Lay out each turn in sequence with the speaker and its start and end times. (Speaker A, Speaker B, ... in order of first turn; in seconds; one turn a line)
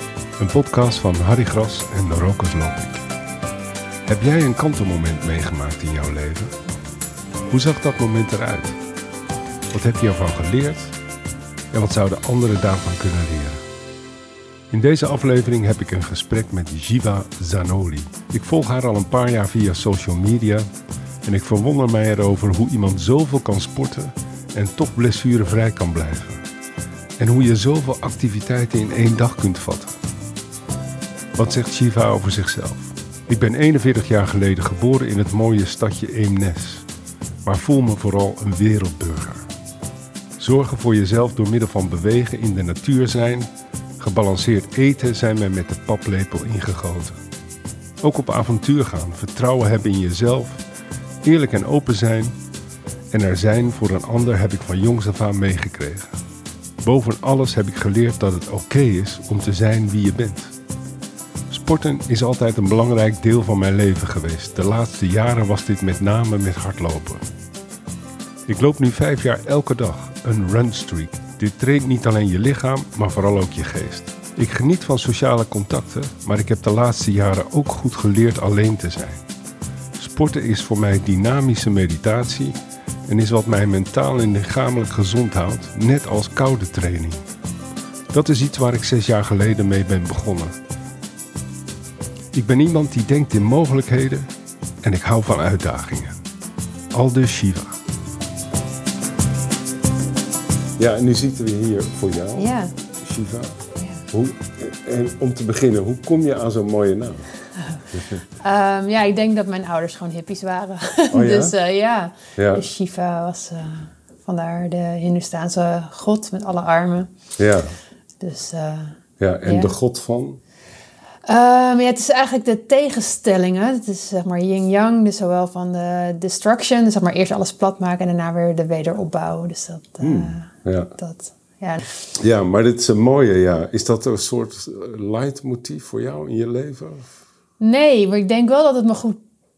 Speaker A: 0.4-3.1
Speaker A: 4.1-6.6
Speaker A: 7.5-8.8
Speaker A: 9.7-11.0
Speaker A: 11.7-13.6
Speaker A: 14.7-20.7
Speaker A: 21.2-26.4
Speaker A: 27.2-30.0
Speaker A: 31.4-36.9
Speaker A: 37.4-39.5
Speaker A: 40.4-47.2
Speaker A: 48.0-50.6
Speaker A: 51.2-52.3
Speaker A: 53.1-56.1
Speaker A: 56.8-60.5
Speaker A: 61.5-67.3
Speaker A: 68.5-79.2
Speaker A: 80.0-87.2
Speaker A: 88.1-90.6
Speaker A: 92.3-94.3
Speaker A: 94.8-96.2
Speaker A: 96.9-97.8
Speaker A: 100.8-103.6
Speaker B: 102.4-102.7
Speaker B: 103.8-104.0
Speaker A: 104.1-107.3
Speaker A: 107.9-108.2
Speaker B: 108.4-117.1
Speaker A: 111.1-111.5
Speaker A: 112.4-112.6
Speaker A: 117.4-117.7
Speaker B: 118.2-119.7
Speaker A: 119.2-120.4
Speaker B: 121.3-131.9
Speaker A: 130.0-130.9
Speaker A: 132.2-137.1
Speaker B: 137.6-139.2